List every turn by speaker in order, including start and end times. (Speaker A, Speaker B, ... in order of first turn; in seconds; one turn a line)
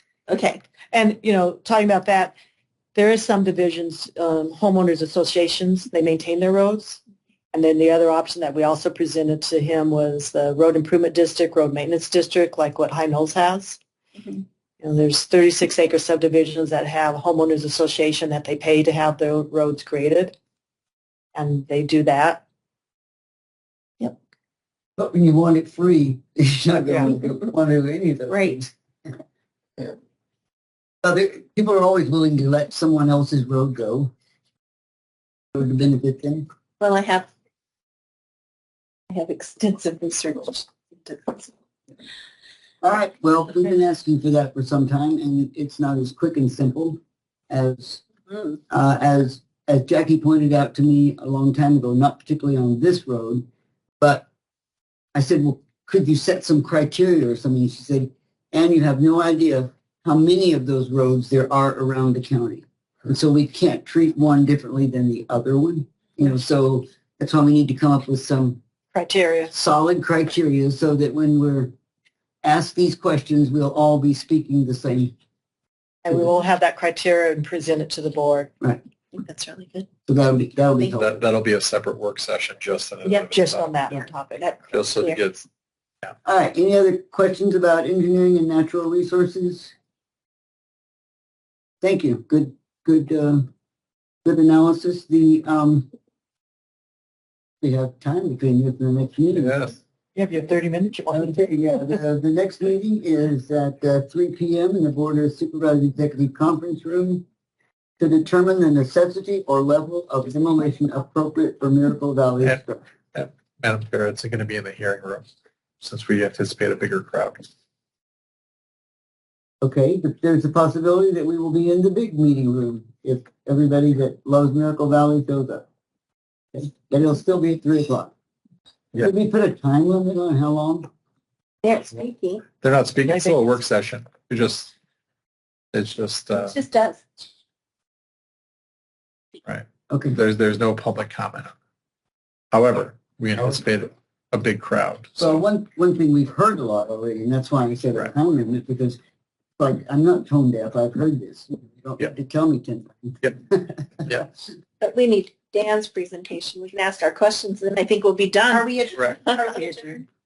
Speaker A: 0.3-0.6
Speaker B: 0.9-2.4
Speaker B: 3.0-7.0
Speaker B: 7.5-13.8
Speaker B: 14.8-20.4
Speaker B: 21.4-22.4
Speaker C: 25.0-28.7
Speaker A: 28.3-28.6
Speaker C: 31.0-34.1
Speaker C: 35.5-36.5
Speaker A: 36.8-37.3
Speaker A: 39.1-41.5
Speaker C: 42.8-47.0
Speaker C: 47.5-48.0
Speaker C: 48.7-53.5
Speaker C: 54.0-54.3
Speaker C: 55.1-68.6
Speaker B: 68.9-69.5
Speaker C: 69.5-71.7
Speaker C: 72.4-75.1
Speaker B: 76.0-78.5
Speaker A: 79.1-79.9
Speaker C: 80.1-81.2
Speaker D: 80.9-83.7
Speaker B: 83.3-84.4
Speaker A: 83.9-85.2
Speaker D: 84.7-85.4
Speaker C: 86.2-89.7
Speaker C: 91.8-93.5
Speaker C: 94.2-95.9
Speaker C: 97.6-99.8
Speaker D: 99.3-99.8
Speaker B: 100.2-101.5
Speaker C: 101.1-107.2
Speaker C: 108.0-112.8
Speaker D: 113.1-115.3
Speaker D: 115.8-117.5
Speaker C: 119.6-125.7
Speaker C: 126.5-128.1
Speaker C: 128.9-130.9
Speaker A: 131.6-132.4
Speaker D: 132.6-134.7
Speaker B: 133.1-133.3
Speaker D: 135.7-136.6
Speaker A: 136.3-137.0
Speaker D: 139.5-141.5
Speaker C: 139.9-140.2
Speaker D: 142.5-145.4
Speaker C: 145.2-149.0
Speaker C: 149.6-154.3
Speaker A: 154.8-160.0
Speaker B: 158.5-158.9
Speaker D: 159.0-159.2
Speaker B: 159.4-159.8